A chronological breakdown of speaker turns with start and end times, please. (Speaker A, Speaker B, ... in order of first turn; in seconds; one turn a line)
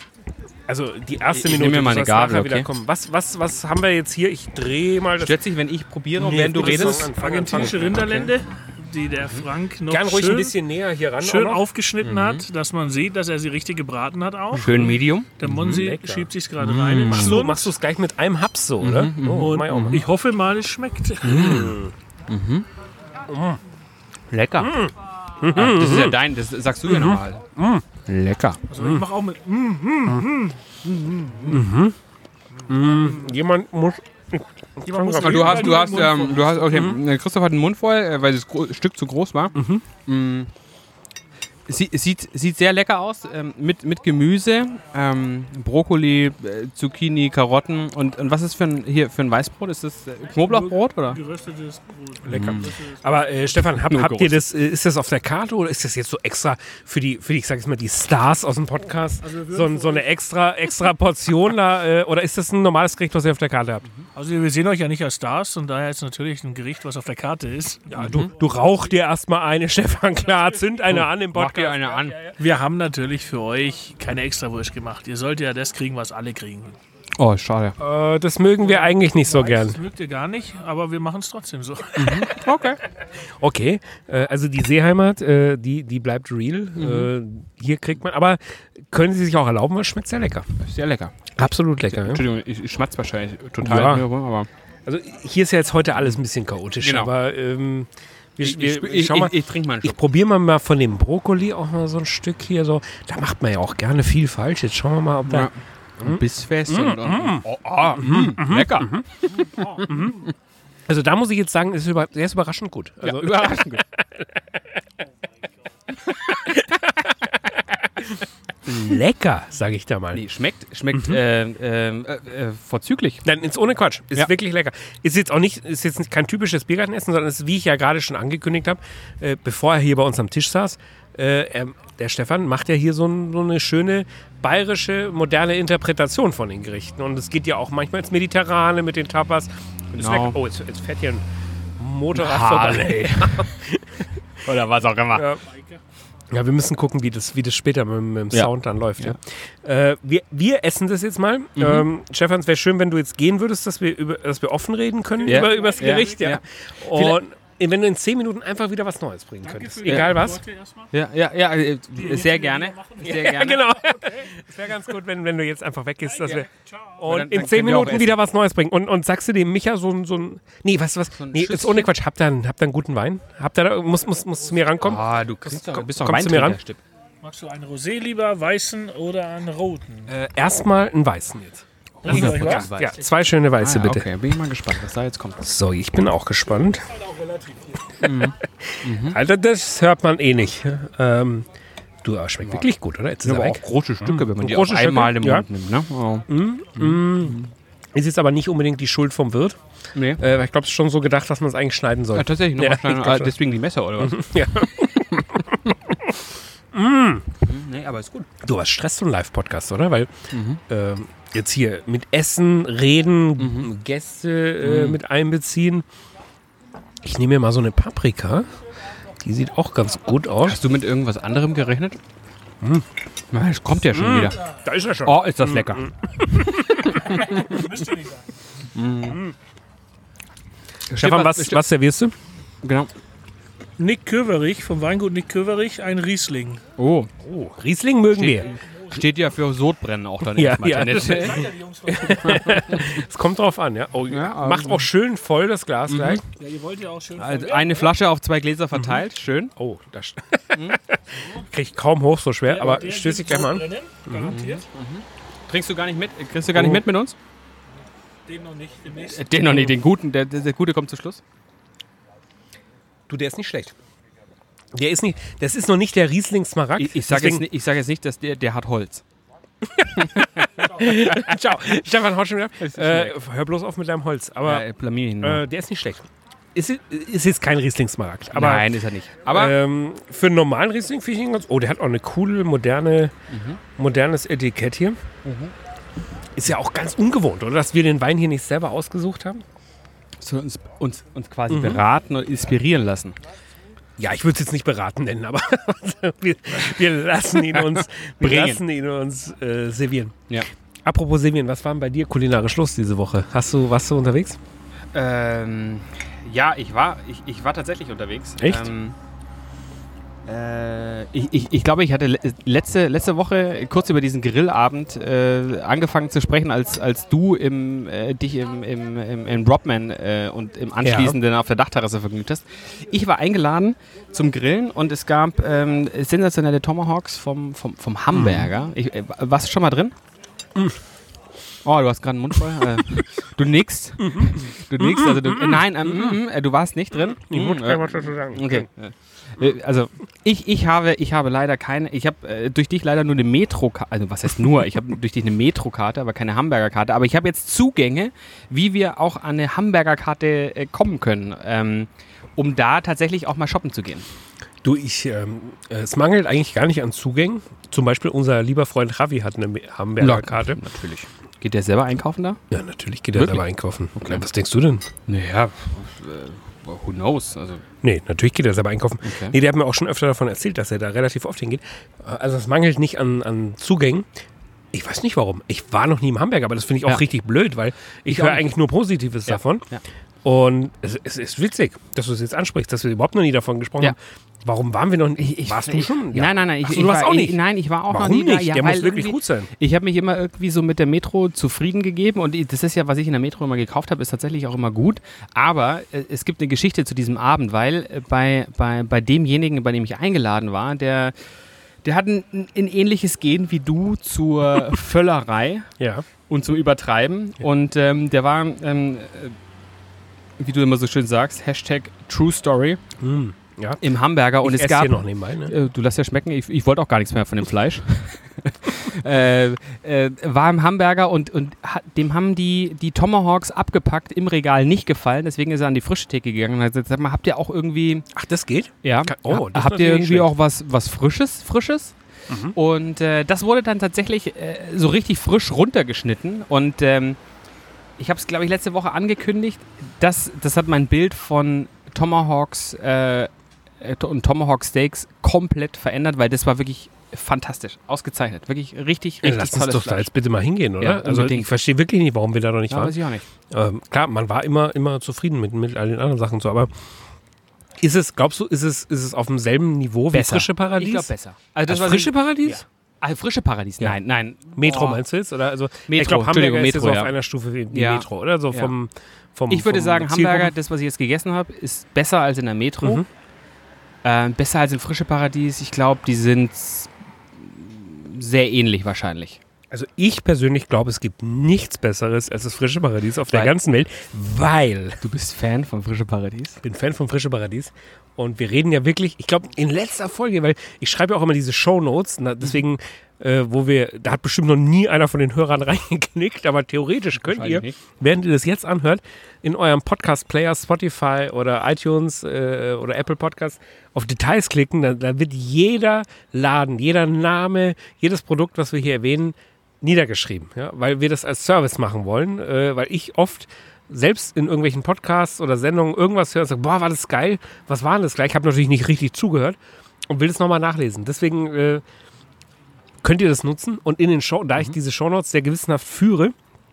Speaker A: 0.7-5.4
Speaker B: 1.3-2.7
Speaker B: 5.2-8.3
Speaker A: 6.2-8.2
Speaker C: 6.6-10.6
Speaker A: 9.9-11.6
Speaker C: 11.2-14.8
Speaker B: 12.0-12.4
Speaker B: 14.5-15.8
Speaker C: 15.4-17.7
Speaker A: 15.4-16.3
Speaker B: 16.6-17.4
Speaker A: 16.9-20.1
Speaker B: 18.8-20.0
Speaker C: 19.4-21.6
Speaker B: 21.2-21.8
Speaker A: 21.2-21.9
Speaker B: 22.3-22.6
Speaker A: 23.3-23.6
Speaker A: 24.3-26.2
Speaker B: 25.5-27.4
Speaker A: 26.9-28.0
Speaker B: 28.1-28.6
Speaker A: 28.6-29.1
Speaker C: 28.7-31.6
Speaker A: 31.4-31.9
Speaker A: 32.7-36.1
Speaker C: 32.8-33.1
Speaker C: 34.9-36.7
Speaker B: 35.1-40.5
Speaker A: 36.7-37.0
Speaker A: 39.5-39.8
Speaker B: 41.7-51.2
Speaker C: 50.4-53.2
Speaker A: 52.2-63.8
Speaker B: 52.3-52.7
Speaker B: 53.8-54.4
Speaker C: 59.2-60.1
Speaker C: 64.1-68.7
Speaker A: 67.9-72.0
Speaker B: 68.0-68.3
Speaker C: 70.3-70.9
Speaker B: 70.9-72.3
Speaker C: 72.2-76.8
Speaker B: 77.2-77.8
Speaker A: 77.8-79.8
Speaker C: 78.6-82.4
Speaker B: 82.0-82.8
Speaker A: 83.4-90.5
Speaker B: 86.8-87.1
Speaker B: 90.6-91.1
Speaker A: 91.3-92.2
Speaker B: 91.9-94.5
Speaker A: 93.6-94.1
Speaker A: 94.8-109.1
Speaker B: 96.8-97.1
Speaker B: 98.4-100.0
Speaker B: 105.2-108.9
Speaker A: 109.8-110.2
Speaker A: 110.9-114.2
Speaker B: 113.0-113.8
Speaker A: 116.3-120.2
Speaker B: 118.7-119.0
Speaker B: 120.1-123.2
Speaker A: 120.9-121.2
Speaker A: 123.2-141.2
Speaker B: 139.9-140.4
Speaker A: 141.8-144.0
Speaker B: 142.1-143.3
Speaker B: 144.4-145.3
Speaker A: 145.1-145.4
Speaker C: 145.4-145.8
Speaker A: 146.3-160.4
Speaker B: 148.3-149.2
Speaker B: 151.6-151.8
Speaker C: 155.2-156.3
Speaker B: 155.2-157.2
Speaker C: 159.4-160.9
Speaker B: 160.9-163.6
Speaker C: 161.9-164.4
Speaker A: 163.0-166.5
Speaker C: 166.1-167.0
Speaker A: 167.0-176.6
Speaker B: 167.1-168.2
Speaker B: 171.1-171.9
Speaker B: 174.8-176.8
Speaker C: 177.2-180.1
Speaker A: 180.1-184.1
Speaker B: 182.0-183.0
Speaker C: 182.0-183.2
Speaker B: 183.6-185.4
Speaker A: 185.4-186.9
Speaker C: 186.9-187.9
Speaker B: 188.0-189.2
Speaker A: 188.2-191.5
Speaker A: 192.0-195.4
Speaker B: 193.2-197.5
Speaker A: 196.3-197.4
Speaker A: 197.9-199.6
Speaker B: 199.9-200.2
Speaker A: 200.2-203.4
Speaker B: 202.1-204.2
Speaker A: 204.0-206.2
Speaker A: 206.7-207.3
Speaker B: 207.4-208.3
Speaker A: 208.4-210.1
Speaker B: 210.3-210.6
Speaker A: 210.7-215.8
Speaker B: 213.4-213.7
Speaker B: 214.6-215.0
Speaker A: 217.0-218.5
Speaker A: 219.2-220.6
Speaker B: 220.4-222.0
Speaker A: 222.6-222.9
Speaker B: 223.3-224.4
Speaker A: 223.9-227.6
Speaker B: 225.0-227.6
Speaker C: 227.0-228.2
Speaker B: 228.7-229.2
Speaker A: 229.1-229.3
Speaker B: 230.9-231.6
Speaker A: 230.9-232.1
Speaker B: 232.6-232.9
Speaker C: 233.8-236.6
Speaker B: 236.8-237.1
Speaker A: 237.2-238.5
Speaker B: 238.1-241.4
Speaker C: 238.4-239.0
Speaker A: 240.2-246.2
Speaker C: 240.8-242.8
Speaker B: 242.2-242.9
Speaker B: 244.1-244.8
Speaker B: 245.9-246.2
Speaker C: 246.3-248.0
Speaker B: 247.2-249.5
Speaker A: 248.7-249.0
Speaker A: 249.6-254.4
Speaker B: 250.5-250.8
Speaker C: 252.5-254.6
Speaker B: 254.3-257.1
Speaker A: 256.5-256.8
Speaker C: 258.2-259.4
Speaker B: 258.9-261.2
Speaker A: 263.1-263.7
Speaker A: 264.7-267.4
Speaker B: 266.8-269.0
Speaker A: 269.8-274.6
Speaker B: 269.9-271.2
Speaker B: 272.6-273.1
Speaker B: 274.4-275.4
Speaker A: 275.2-278.7
Speaker B: 278.3-279.5
Speaker A: 279.3-283.1
Speaker B: 283.3-283.6
Speaker A: 283.8-285.0
Speaker B: 285.2-285.5
Speaker A: 286.4-289.4
Speaker B: 290.2-293.1
Speaker A: 291.5-291.8
Speaker A: 294.0-300.1
Speaker B: 297.4-298.6
Speaker A: 300.8-304.4
Speaker B: 304.9-309.0
Speaker A: 308.4-308.7
Speaker B: 310.2-329.9
Speaker A: 320.8-321.2
Speaker A: 328.1-328.5
Speaker B: 331.6-354.1
Speaker A: 334.0-336.2
Speaker A: 336.9-338.7
Speaker A: 354.6-360.6
Speaker B: 360.0-362.4
Speaker A: 362.5-364.9
Speaker B: 363.1-363.4
Speaker B: 363.9-364.2
Speaker B: 365.1-367.6
Speaker A: 367.8-374.1
Speaker B: 369.0-369.4
Speaker A: 374.7-379.6
Speaker B: 378.1-378.5
Speaker B: 379.3-379.8
Speaker A: 380.2-389.5
Speaker B: 385.2-401.1
Speaker B: 401.8-405.7
Speaker A: 405.8-406.1
Speaker B: 406.3-409.4
Speaker B: 410.4-412.8
Speaker A: 413.0-413.8
Speaker B: 413.8-428.1
Speaker A: 414.4-415.5
Speaker A: 428.1-430.3
Speaker B: 428.8-431.9
Speaker A: 432.3-432.6
Speaker B: 432.5-437.2
Speaker B: 438.0-443.3
Speaker B: 443.8-450.1
Speaker A: 449.2-453.0
Speaker B: 450.8-451.5
Speaker B: 452.7-453.2
Speaker A: 453.5-456.7
Speaker A: 457.8-461.1
Speaker B: 460.1-465.0
Speaker A: 461.7-462.6
Speaker A: 464.5-470.5
Speaker B: 465.9-467.1
Speaker B: 467.7-468.7
Speaker B: 469.5-473.0
Speaker B: 474.0-479.4
Speaker A: 479.7-485.0
Speaker B: 483.3-483.5
Speaker B: 485.0-486.6
Speaker A: 486.6-521.8
Speaker B: 497.2-497.8
Speaker A: 523.0-526.3